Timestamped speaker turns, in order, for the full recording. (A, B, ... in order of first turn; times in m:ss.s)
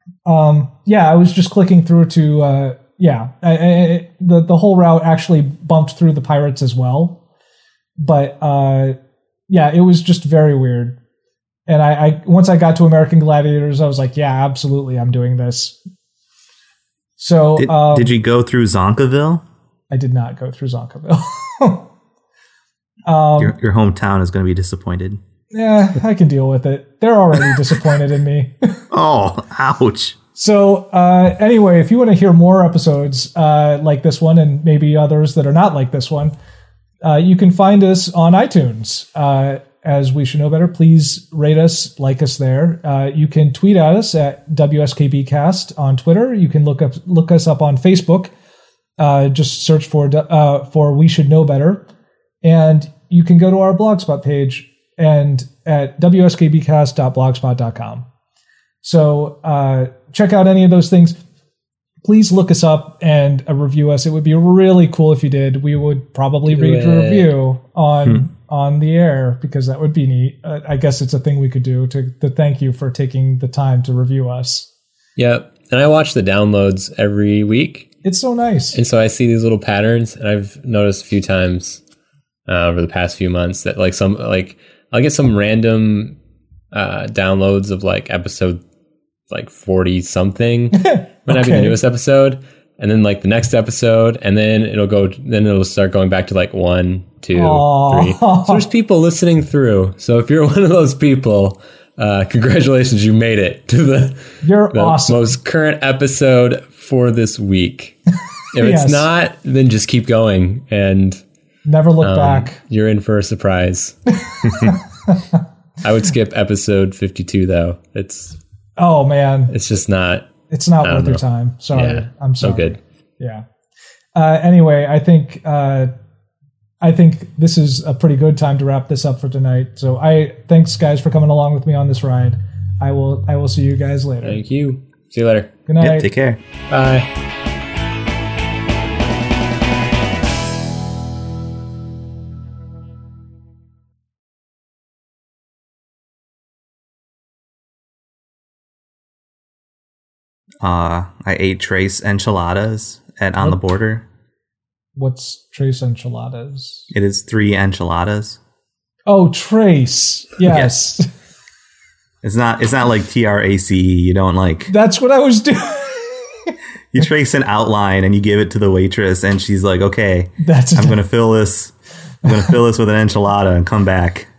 0:00.2-0:07.2 A
0:08.0-0:09.0 A
0:09.5-0:11.0 A
0:11.7-0:15.8 A
0:17.2-0:18.1 A
0:17.6-0:19.4 B
0:19.9-0:21.9 A
0:23.0-0:23.5 A
0:23.4-0:25.2 B
0:25.5-0:28.8 A
0:28.9-0:30.2 B
0:30.3-0:36.3 A
0:37.0-0:48.3 A
0:49.0-0:51.8 A
0:52.4-0:58.0 A
0:58.8-1:01.2 A
1:02.0-1:14.7 A
1:06.5-1:07.3 C
1:15.2-1:17.9 C
1:18.0-1:18.8 A
1:18.7-1:21.8 C
1:22.5-1:26.2 C
1:26.7-1:28.6 C
1:29.3-1:48.0 C
1:30.7-1:31.8 A
1:37.3-1:38.7 A
1:44.4-1:45.3 A
1:48.5-1:51.2 C
1:48.6-1:49.1 A
1:51.6-1:52.6 A
1:52.0-1:54.0 C
1:54.1-1:55.4 A
1:54.4-1:54.7 B
1:55.8-1:58.4 C
1:58.8-1:59.5 A
1:59.5-2:02.8 C
2:00.5-2:03.4 A
2:04.1-2:05.9 A
2:06.8-2:14.4 A
2:14.2-2:15.5 C
2:15.7-2:16.1 A
2:15.8-2:16.4 B
2:16.7-2:17.1 C
2:30.6-2:34.0 B
2:35.0-2:36.9 A
2:36.9-2:38.4 B
2:39.0-2:41.1 A
2:40.4-2:40.7 B
2:42.2-2:44.7 B
2:44.7-2:46.5 A
2:46.9-2:51.7 B
2:50.4-2:51.0 A
2:52.2-2:54.3 B